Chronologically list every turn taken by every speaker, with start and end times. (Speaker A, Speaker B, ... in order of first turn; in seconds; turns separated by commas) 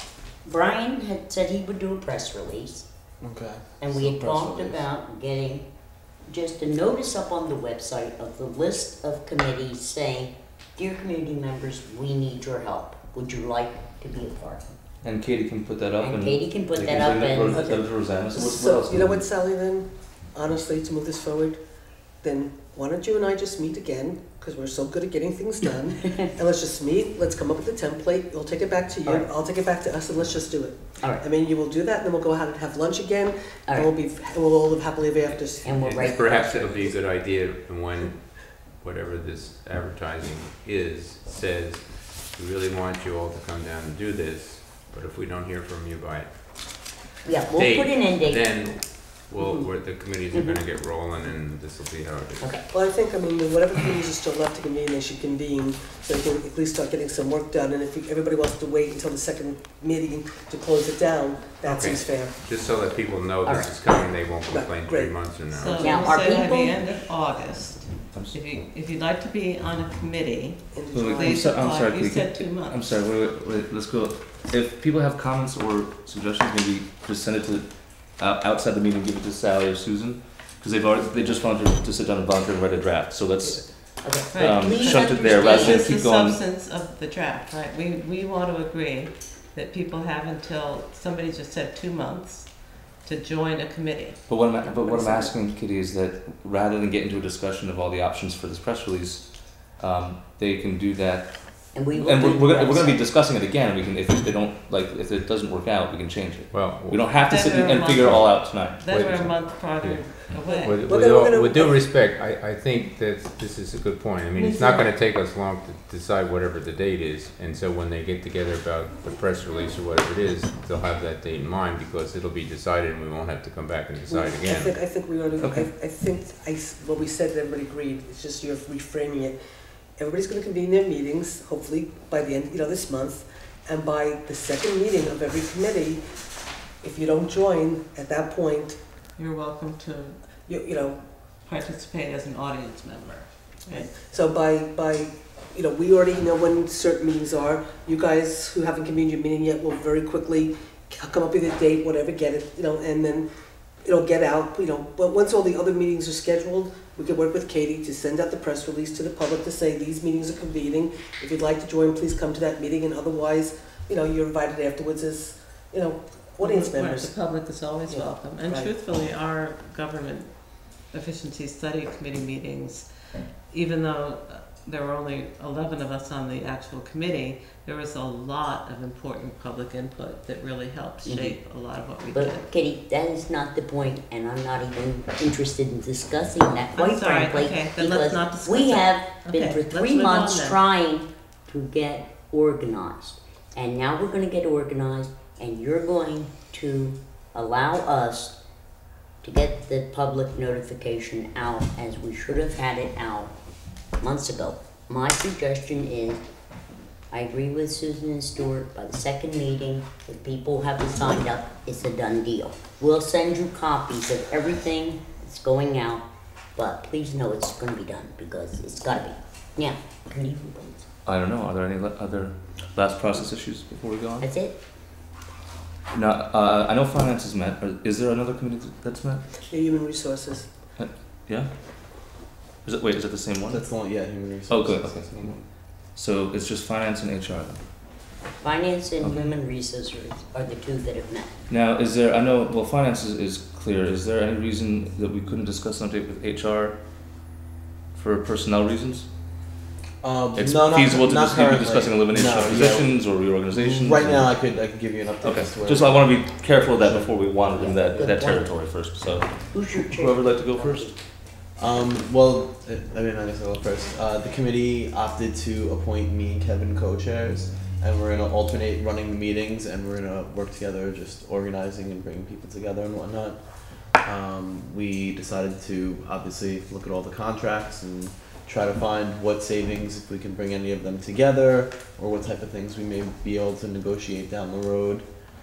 Speaker A: 0.5-2.9, Speaker B: 3.2-4.8, Speaker A: 3.8-5.7, Speaker A: 6.3-14.8, Speaker C: 15.0-19.2, Speaker A: 16.0-17.7, Speaker D: 17.5-21.6, Speaker D: 22.2-36.1, Speaker A: 35.6-36.9, Speaker C: 35.8-38.1, Speaker E: 36.0-38.1, Speaker E: 38.8-41.8, Speaker C: 40.2-40.5, Speaker E: 42.4-46.2, Speaker C: 42.4-44.3, Speaker A: 47.2-48.5, Speaker C: 47.6-48.7, Speaker E: 47.6-51.1, Speaker C: 49.3-52.5, Speaker E: 51.9-52.4, Speaker D: 52.7-62.4, Speaker C: 61.7-65.9, Speaker E: 62.6-66.0, Speaker A: 63.5-63.7, Speaker D: 64.5-65.1, Speaker F: 65.5-72.9, Speaker A: 65.8-66.8, Speaker D: 70.7-71.5, Speaker C: 70.9-83.6, Speaker A: 84.0-86.0, Speaker F: 84.3-94.2, Speaker C: 84.4-86.4, Speaker C: 94.3-101.3, Speaker A: 101.7-103.0, Speaker C: 102.0-109.3, Speaker E: 106.5-107.0, Speaker F: 107.2-110.8, Speaker D: 110.5-111.8, Speaker E: 110.7-124.4, Speaker C: 110.9-112.1, Speaker C: 113.0-113.3, Speaker C: 114.3-115.1, Speaker F: 114.4-114.9, Speaker C: 119.0-121.8, Speaker C: 123.8-124.7, Speaker D: 124.1-129.4, Speaker D: 130.0-136.0, Speaker D: 136.8-138.8, Speaker F: 139.2-140.2, Speaker D: 140.5-141.0, Speaker F: 141.4-143.9, Speaker D: 143.7-153.3, Speaker D: 153.8-167.2, Speaker F: 166.4-172.9, Speaker D: 167.9-168.7, Speaker F: 173.5-182.5, Speaker A: 181.0-181.4, Speaker A: 182.1-198.4, Speaker F: 186.8-190.6, Speaker A: 199.2-203.3, Speaker A: 204.0-206.2, Speaker A: 207.1-216.1, Speaker A: 216.6-220.9, Speaker C: 221.1-224.2, Speaker A: 224.2-224.6, Speaker C: 225.9-229.2, Speaker D: 229.5-230.5, Speaker C: 230.8-231.5, Speaker C: 232.6-233.6, Speaker B: 233.5-235.4, Speaker C: 234.5-235.3, Speaker C: 235.9-237.6, Speaker A: 238.4-241.3, Speaker C: 239.0-239.3, Speaker C: 241.5-246.8, Speaker C: 247.9-249.1, Speaker B: 250.0-253.0, Speaker C: 250.4-254.3, Speaker B: 253.6-256.2, Speaker C: 255.2-259.3, Speaker B: 256.7-257.1, Speaker A: 257.6-258.5, Speaker A: 259.1-261.0, Speaker C: 259.9-260.8, Speaker B: 261.6-273.4, Speaker B: 274.0-285.1